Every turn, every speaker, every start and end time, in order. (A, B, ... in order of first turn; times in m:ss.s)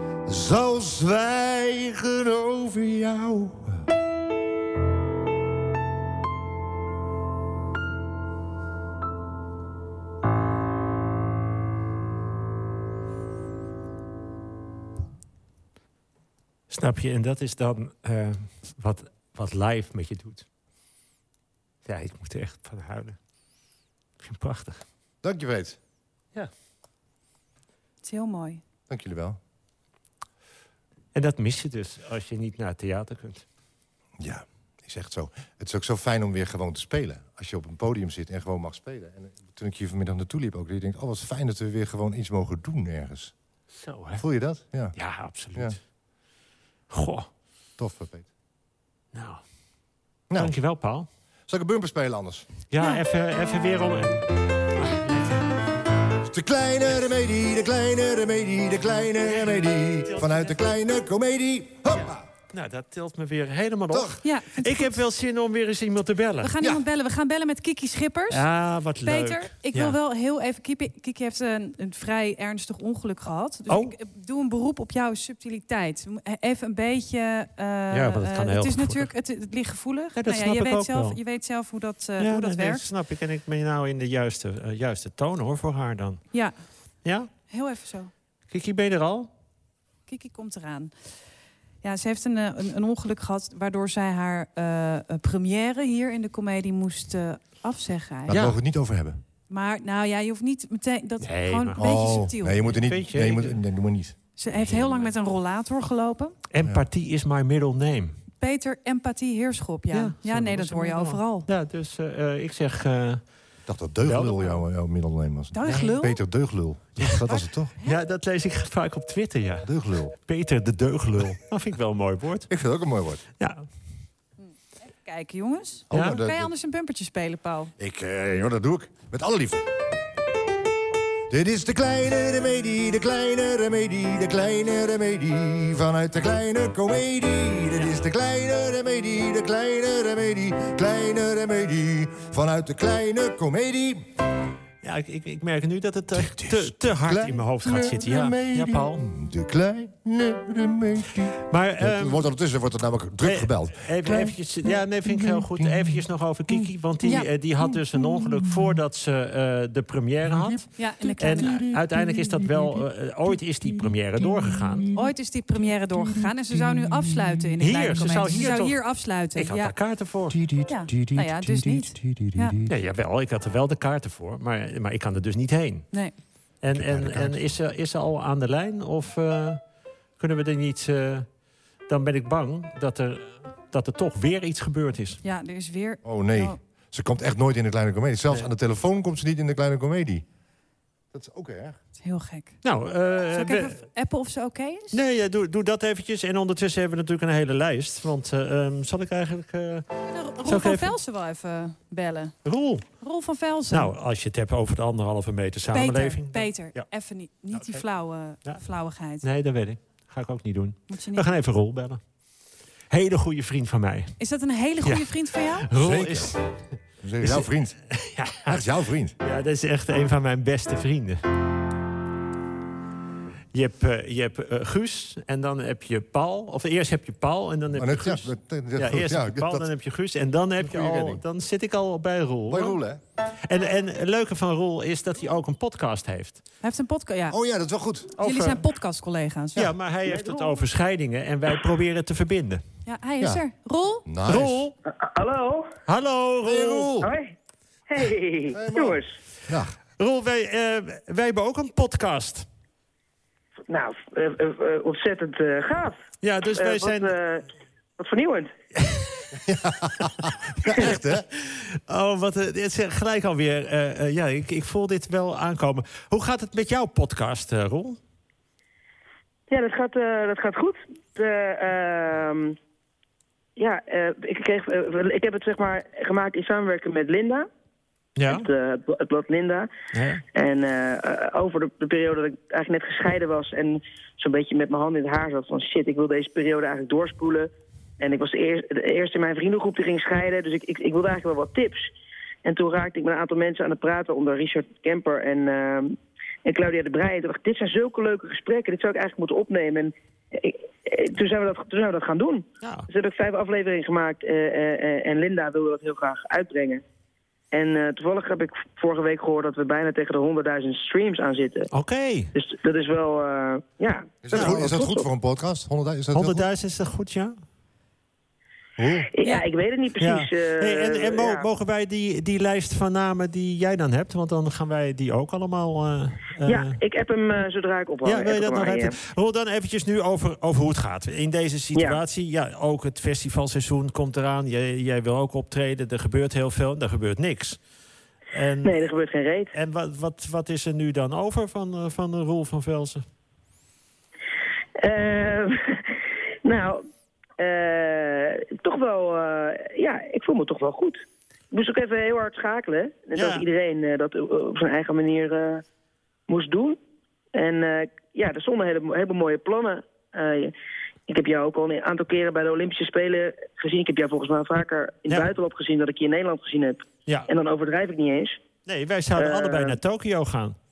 0:00.3-0:03.9 A
0:16.7-0:20.5 B
0:21.8-0:23.2 B
0:24.2-0:24.8 B
0:25.2-0:25.8 A
0:28.0-0:28.6 C
0:28.9-0:29.4 A
0:31.1-0:33.4 B
0:34.2-0:43.3 A
0:43.8-0:44.2 B
0:44.2-0:45.0 A
0:45.0-0:45.8 B
0:46.9-0:47.3 B
0:47.8-0:48.3 A
0:49.1-0:49.4 B
0:50.3-0:50.6 A
0:50.4-0:51.1 B
0:51.5-0:52.5 A
0:52.7-0:54.2 B
0:54.8-0:55.6 B
0:56.2-1:02.3 A
1:00.0-1:00.6 B
1:02.5-1:06.5 B
1:03.9-1:04.2 A
1:04.2-1:05.0 C
1:06.4-1:08.4 C
1:08.3-1:10.0 B
1:09.0-1:22.9 C
1:13.7-1:14.0 B
1:17.9-1:19.1 B
1:20.2-1:21.2 B
1:22.2-1:26.2 B
1:27.0-1:27.3 B
1:27.5-1:28.1 C
1:28.5-1:29.3 B
1:30.1-1:30.9 C
1:31.8-1:38.4 C
1:38.3-1:39.2 A
1:38.3-1:38.6 B
1:39.5-1:42.6 C
1:41.2-1:43.6 B
1:41.8-1:44.2 A
1:44.4-1:46.4 C
1:44.7-1:45.1 B
1:46.5-1:48.2 B
1:48.4-1:51.5 C
1:49.9-1:53.2 B
1:53.7-1:57.7 A
1:54.0-1:54.6 B
1:55.5-1:56.2 C
1:57.0-1:57.3 B
1:57.8-2:02.5 B
1:59.6-2:00.1 A
2:02.5-2:03.2 A
2:04.8-2:07.7 C
2:05.9-2:06.5 A
2:05.9-2:06.2 B
2:07.8-2:09.7 A
2:11.3-2:24.1 A
2:24.8-2:29.0 B
2:26.2-2:36.0 A
2:31.5-2:32.2 B
2:33.2-2:44.9 B
2:38.0-2:38.7 A
2:40.3-2:40.6 A
2:40.8-2:41.6 C
2:41.4-2:45.1 A
2:45.0-2:49.8 C
2:46.0-2:48.4 A
2:47.6-2:48.8 B
2:49.4-2:50.4 B
2:50.3-2:52.8 A
2:50.7-2:52.6 C
2:52.7-2:55.9 B
2:56.6-2:59.6 B
2:56.7-2:57.4 A
3:00.2-3:01.3 B
3:01.9-3:05.2 B
3:05.2-3:06.6 C
3:06.0-3:10.2 A
3:11.1-3:11.8 A
3:12.0-3:12.6 C
3:12.6-3:13.8 B
3:13.3-3:15.0 C
3:14.9-3:19.9 B
3:20.1-3:22.4 C
3:20.4-3:20.9 B
3:22.4-3:22.8 B
3:23.0-3:23.9 C
3:23.7-3:26.8 B
3:25.7-3:29.2 C
3:29.2-3:32.0 B
3:30.9-3:31.3 C
3:32.9-3:34.2 B
3:34.2-3:35.7 C
3:34.8-3:35.1 B
3:35.6-3:36.5 B
3:35.8-3:36.4 A
3:37.0-3:37.8 A
3:37.2-3:38.7 B
3:38.4-3:39.2 A
3:39.2-3:41.2 B
3:43.5-3:52.8 B
3:47.7-3:49.7 A
3:50.6-3:51.2 A
3:52.5-3:53.0 A
3:53.4-3:56.4 B
3:56.6-3:57.4 C
3:57.3-3:58.2 A
3:58.2-3:59.6 C
3:58.2-3:58.6 B
3:59.6-4:02.6 B
4:00.1-4:00.6 D
4:02.9-4:04.0 C
4:04.0-4:04.6 A
4:04.3-4:04.8 B
4:05.0-4:05.8 D
4:05.9-4:07.0 B
4:06.4-4:07.1 A
4:07.0-4:07.3 D
4:07.9-4:09.2 D
4:08.5-4:09.7 A
4:10.0-4:12.5 B
4:13.7-4:16.0 D
4:16.2-4:17.1 B
4:16.6-4:17.5 D
4:18.0-4:18.5 D
4:18.8-4:19.1 B
4:19.4-4:21.3 A
4:20.7-4:28.0 B
4:29.5-4:32.6 D
4:33.6-4:37.5 D
4:38.2-4:38.5 B
4:38.3-4:39.7 D
4:39.9-4:40.2 B
4:40.3-4:51.9 D
4:52.4-5:06.8 D
5:07.5-5:11.7 D
5:11.7-5:12.3 B
5:12.4-5:15.1 D
5:14.2-5:16.5 A
5:14.3-5:14.6 B
5:16.1-5:17.4 B
5:18.8-5:19.1 A
5:19.1-5:21.4 D
5:20.0-5:26.8 B
5:26.5-5:29.0 D
5:28.0-5:37.6 B
5:31.8-5:32.0 D
5:38.3-5:38.7 B
5:38.6-5:39.5 D
5:39.5-5:43.0 B
5:44.8-5:46.9 D
5:47.4-5:55.6 D
5:53.2-5:53.4 B
5:56.3-5:56.8 D
5:57.3-6:00.5 D
6:01.1-6:08.4 D
6:08.7-6:10.6 B
6:09.2-6:09.8 D